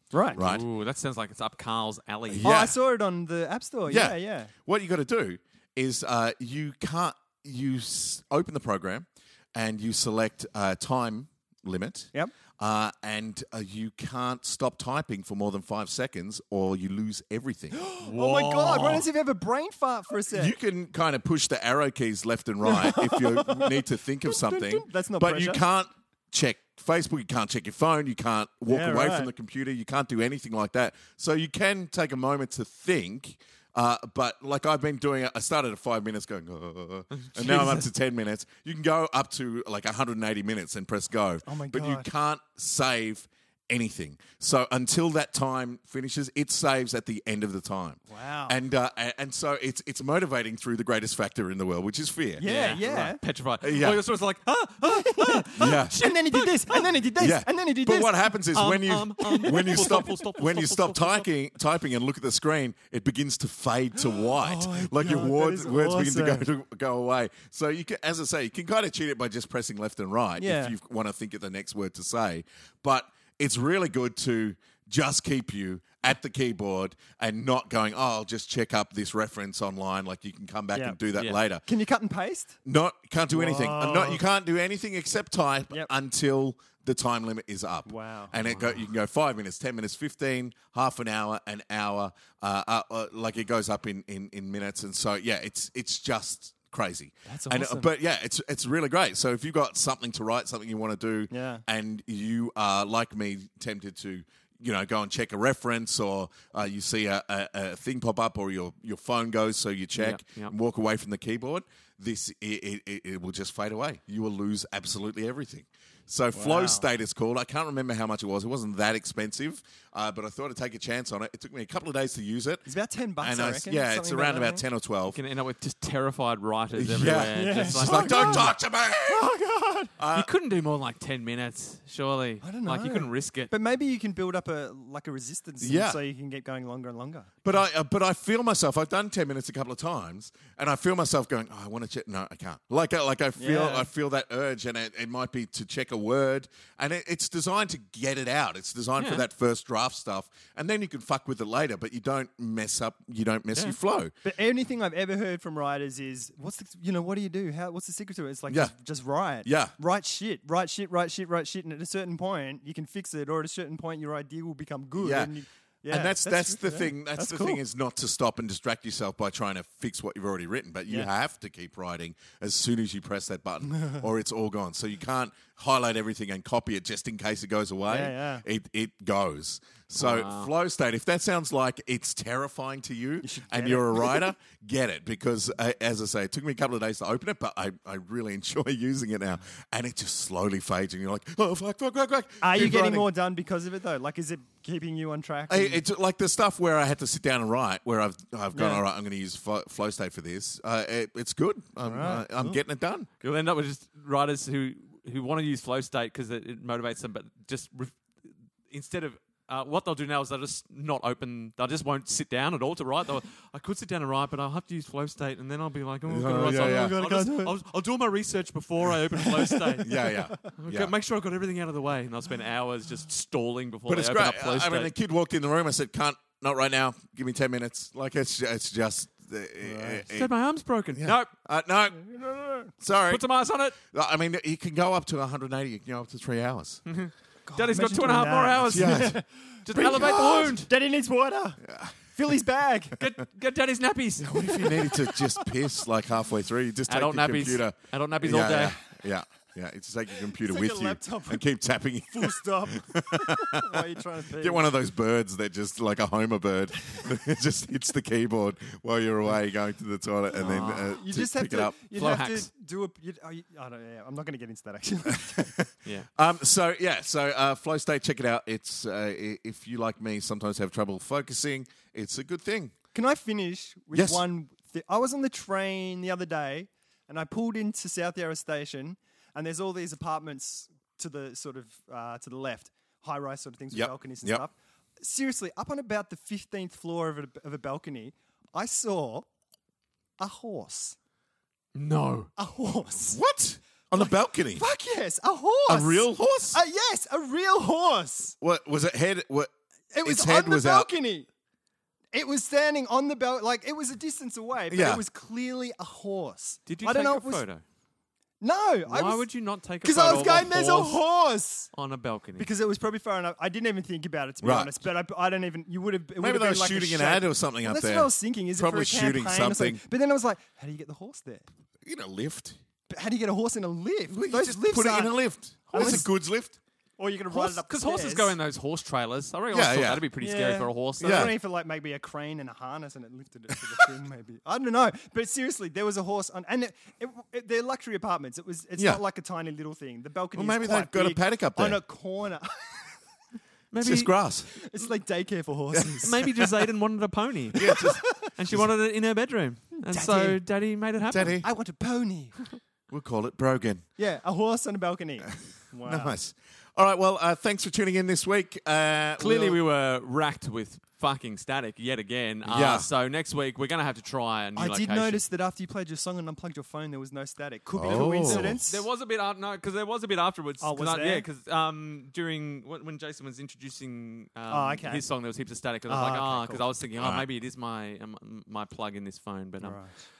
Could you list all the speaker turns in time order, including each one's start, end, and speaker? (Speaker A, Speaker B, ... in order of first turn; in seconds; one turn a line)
Speaker A: 0.1-0.4
Speaker B: 0.3-0.6
Speaker C: 0.4-2.5
Speaker B: 2.3-2.8
Speaker A: 2.4-4.5
Speaker B: 3.9-17.8
Speaker A: 17.7-20.5
Speaker C: 18.0-19.1
Speaker B: 20.3-53.1
Speaker A: 22.6-25.6
Speaker A: 28.7-29.3
Speaker C: 37.2-37.9
Speaker A: 41.4-42.1
Speaker A: 48.1-48.5
Speaker A: 52.4-53.2
Speaker C: 52.4-56.1
Speaker B: 53.6-54.0
Speaker A: 54.7-58.3
Speaker B: 55.5-56.0
Speaker B: 57.2-81.6
Speaker C: 58.5-61.3
Speaker A: 59.2-60.0
Speaker A: 64.1-66.5
Speaker A: 70.4-70.7
Speaker A: 81.6-82.6
Speaker B: 82.6-122.7
Speaker A: 83.3-84.2
Speaker A: 87.8-88.3
Speaker C: 88.3-88.8
Speaker A: 97.3-97.9
Speaker A: 101.3-101.6
Speaker C: 110.0-110.5
Speaker A: 116.3-116.8
Speaker A: 122.7-124.6
Speaker B: 123.2-125.2
Speaker C: 125.1-128.5
Speaker B: 126.8-129.3
Speaker A: 127.1-129.9
Speaker B: 130.0-130.3
Speaker C: 130.1-133.5
Speaker A: 132.4-137.4
Speaker B: 135.6-136.0
Speaker B: 137.4-154.1
Speaker A: 143.4-143.9
Speaker C: 149.0-149.2
Speaker A: 154.2-167.6
Speaker B: 159.4-159.7
Speaker B: 165.0-165.3
Speaker B: 165.9-193.1
Speaker A: 177.9-178.4
Speaker C: 180.0-180.5
Speaker A: 183.2-184.3
Speaker A: 192.4-195.8
Speaker B: 195.5-203.1
Speaker A: 198.5-198.8
Speaker A: 201.8-202.6
Speaker C: 203.2-224.9
Speaker B: 216.1-217.0
Speaker A: 216.4-217.6
Speaker A: 219.1-220.1
Speaker B: 219.8-220.9
Speaker B: 223.9-230.3
Speaker A: 229.6-230.1
Speaker C: 230.1-231.3
Speaker B: 230.9-236.8
Speaker A: 232.0-232.7
Speaker C: 233.1-233.8
Speaker C: 236.9-240.7
Speaker A: 237.5-242.9
Speaker B: 238.7-239.2
Speaker B: 239.8-240.2
Speaker B: 241.6-242.1
Speaker C: 243.0-244.9
Speaker B: 244.2-253.8
Speaker C: 246.9-248.8
Speaker A: 250.2-251.4
Speaker A: 252.1-254.7
Speaker B: 254.3-261.8
Speaker A: 260.3-265.5
Speaker C: 260.4-260.8
Speaker C: 261.9-262.5
Speaker B: 265.2-272.7
Speaker A: 272.9-289.3
Speaker B: 273.9-274.2
Speaker B: 283.7-284.4
Speaker A: 290.2-291.0
Speaker C: 291.7-292.3
Speaker A: 292.4-293.2
Speaker B: 293.1-294.6
Speaker A: 293.9-298.4
Speaker B: 295.7-296.6
Speaker B: 298.4-299.5
Speaker A: 299.9-301.3
Speaker B: 300.0-300.9
Speaker A: 302.1-307.4
Speaker B: 304.7-305.0
Speaker C: 306.7-307.6
Speaker A: 308.4-309.2
Speaker C: 308.9-311.0
Speaker A: 309.8-311.7
Speaker C: 311.7-312.5
Speaker A: 312.4-321.5
Speaker B: 314.4-314.7
Speaker B: 316.2-319.8
Speaker B: 321.8-322.6
Speaker A: 322.9-325.2
Speaker B: 324.1-326.6
Speaker A: 325.7-326.1
Speaker A: 327.0-328.3
Speaker C: 327.3-331.3
Speaker B: 329.5-330.0
Speaker A: 330.2-342.9
Speaker B: 331.0-331.3
Speaker B: 340.3-341.8
Speaker C: 343.7-344.1
Speaker B: 343.8-344.5
Speaker A: 344.5-346.3
Speaker B: 345.7-346.2
Speaker C: 346.0-347.8
Speaker B: 347.5-348.7
Speaker C: 348.3-351.4
Speaker A: 349.8-350.4
Speaker B: 351.1-351.5
Speaker A: 351.4-352.4
Speaker B: 352.9-353.8
Speaker A: 354.0-356.1
Speaker B: 355.8-359.6
Speaker C: 359.2-365.2
Speaker B: 362.4-362.9
Speaker A: 364.6-368.8
Speaker B: 367.7-368.6
Speaker C: 367.9-379.9
Speaker A: 370.6-371.2
Speaker A: 374.5-375.0
Speaker A: 375.9-376.6
Speaker B: 376.9-377.2
Speaker A: 379.6-379.9